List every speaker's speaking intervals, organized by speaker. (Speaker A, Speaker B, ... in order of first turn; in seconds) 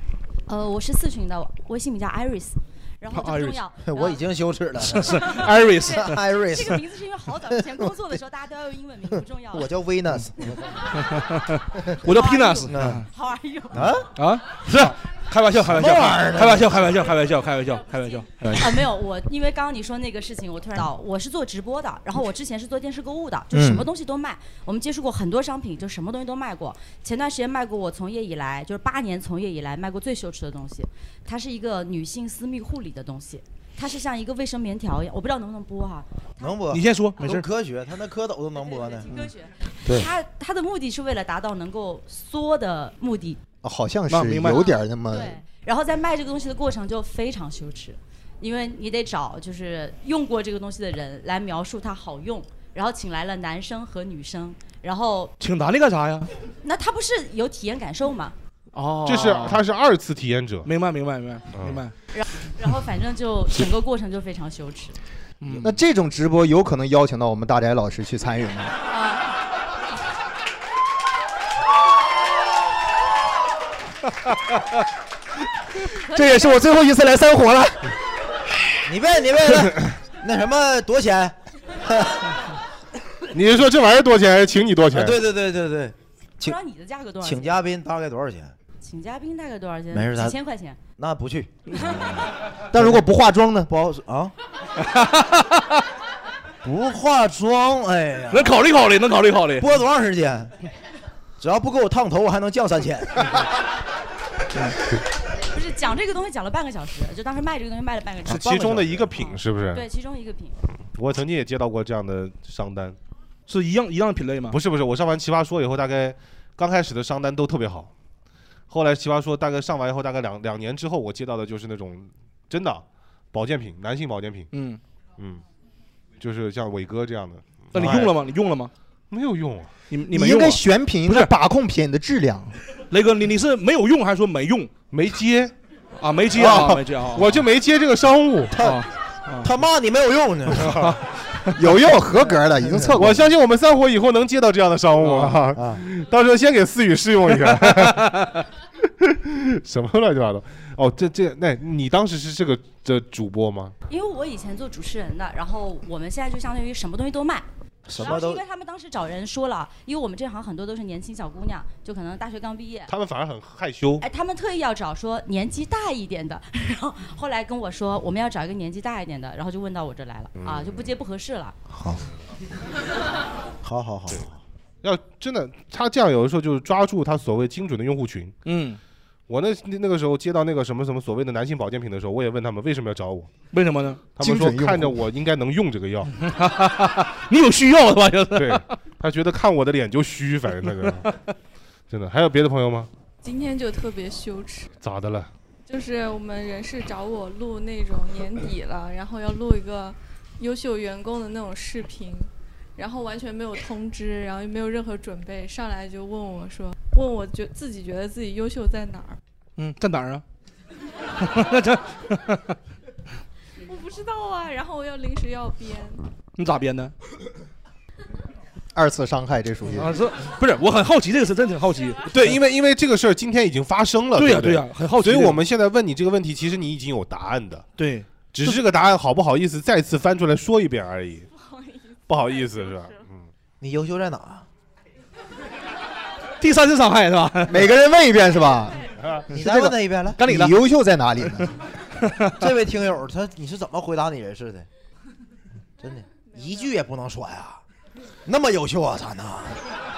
Speaker A: 0.5-4.2, 5.3-9.7, 12.0-13.9, 18.5-36.6, 38.6-43.4, 44.6-55.3, 56.6-58.3, 62.1-65.0, 68.9-69.3, 76.1-76.6, 86.4-87.6, 88.8-90.8, 105.5-108.5, 109.1-110.6, 153.9-162.9, 164.0-171.5
Speaker B: 3.1-3.6, 4.9-6.2, 11.0-13.1, 14.2-18.9, 36.7-37.4, 44.1-44.6, 55.4-56.3, 58.7-59.6, 60.6-61.9, 65.4-65.7, 94.8-95.8, 98.3-99.7, 113.5-114.6, 124.5-124.8, 127.7-128.7, 129.9-131.3, 132.9-134.7, 136.0-137.4, 138.5-139.5, 140.6-141.5, 145.0-145.4, 147.6-148.3, 178.4-178.8, 183.5-184.0, 186.2-188.6, 190.7-191.2, 209.6-210.2, 211.2-212.5, 216.4-216.9, 219.7-222.2, 224.2-225.4, 227.8-228.6, 236.4-237.7, 240.2-240.6, 242.0-242.3
Speaker C: 3.8-5.4, 5.9-6.8, 9.5-11.0, 12.7-13.0, 13.7-14.1, 15.6-16.8, 36.4-39.3, 78.8-82.2, 84.9-86.6, 87.2-88.5, 89.9-90.3, 91.0-93.0, 93.7-94.3, 96.6-98.6, 99.6-100.5, 101.4-103.3, 108.2-109.1, 138.5-138.8, 139.4-140.7, 142.7-142.9, 145.5-145.8, 157.9-158.4, 171.7-172.0, 173.6-174.4, 233.6-234.5, 239.3-240.2, 242.4-244.7, 245.8-247.6, 248.2-249.6
Speaker D: 23.5-23.9, 43.6-45.4, 65.5-68.7, 76.1-77.9, 92.7-93.7, 130.1-132.6, 141.5-143.2, 184.2-185.0, 218.7-219.9, 237.5-241.5
Speaker E: 59.0-60.7, 61.5-61.8, 83.3-85.2, 108.2-109.8, 110.9-113.0, 114.5-117.9, 118.7-124.5, 126.2-128.2, 129.1-129.7, 134.9-135.5, 136.3-138.5, 140.6-140.9, 143.0-148.2, 149.0-153.7, 162.9-164.0, 170.3-170.8, 174.8-178.3, 179.3-183.3, 184.2-186.1, 188.3-191.1, 191.9-192.9, 194.8-195.3, 222.1-227.7, 228.3-231.3, 232.1-233.3
Speaker F: 193.2-194.7, 195.7-209.2, 213.6-216.1, 246.3-246.7